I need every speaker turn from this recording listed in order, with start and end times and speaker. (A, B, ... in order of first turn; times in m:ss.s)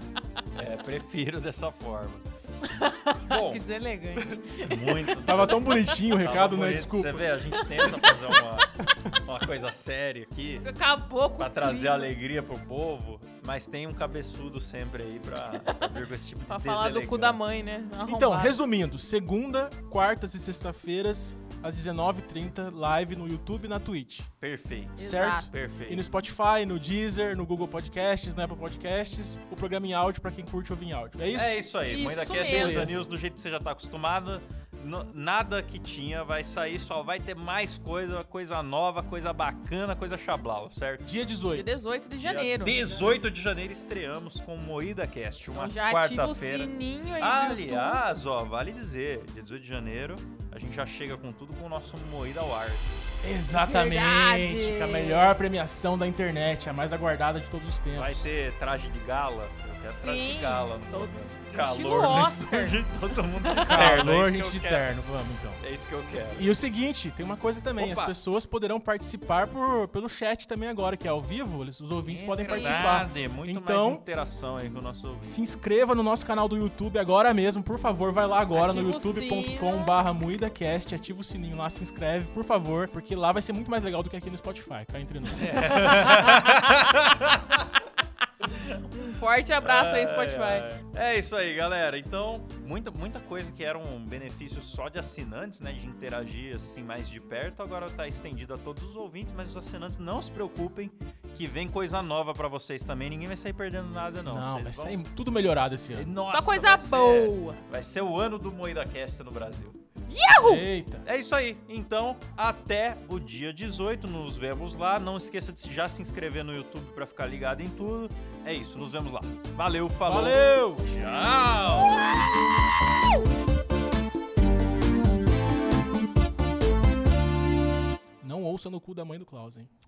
0:00.6-0:02.2 A
0:02.6-0:05.2 B
0:03.2-0:03.6 A
0:04.2-0:08.7 A
0:05.2-0:07.3 C
0:07.5-0:08.2 B
0:09.2-0:10.7 A
0:10.6-0:12.2 B
0:11.4-0:17.5 A
0:15.5-0:15.9 B
0:16.5-0:18.6 B
0:18.0-0:24.3 C
0:24.4-0:26.1 A
0:25.0-0:25.5 B
0:25.0-0:31.7 C
0:31.2-0:41.1 A
0:31.8-0:33.0 B
0:32.3-0:33.1 C
0:41.0-0:41.7 C
0:41.5-0:43.0 B
0:42.2-0:53.2 A
0:45.5-0:48.0 B
0:53.2-0:58.3 C
0:53.5-0:55.4 B
0:57.9-1:05.0 A
0:59.9-1:02.8 B
1:03.4-1:03.8 B
1:03.5-1:05.6 C
1:05.6-1:06.6 A
1:06.3-1:14.0 C
1:07.8-1:08.2 A
1:12.0-1:15.4 A
1:12.4-1:12.8 B
1:15.2-1:25.8 C
1:18.5-1:19.9 B
1:25.4-1:27.8 A
1:25.8-1:26.3 B
1:28.4-1:28.8 A
1:28.9-1:30.7 B
1:29.6-1:45.0 A
1:44.3-1:46.2 C
1:46.0-1:49.8 A
1:46.3-1:47.6 B
1:50.1-1:50.7 B
1:50.4-1:51.0 C
1:51.0-2:02.1 A
2:00.0-2:00.9 C
2:08.2-2:09.7 C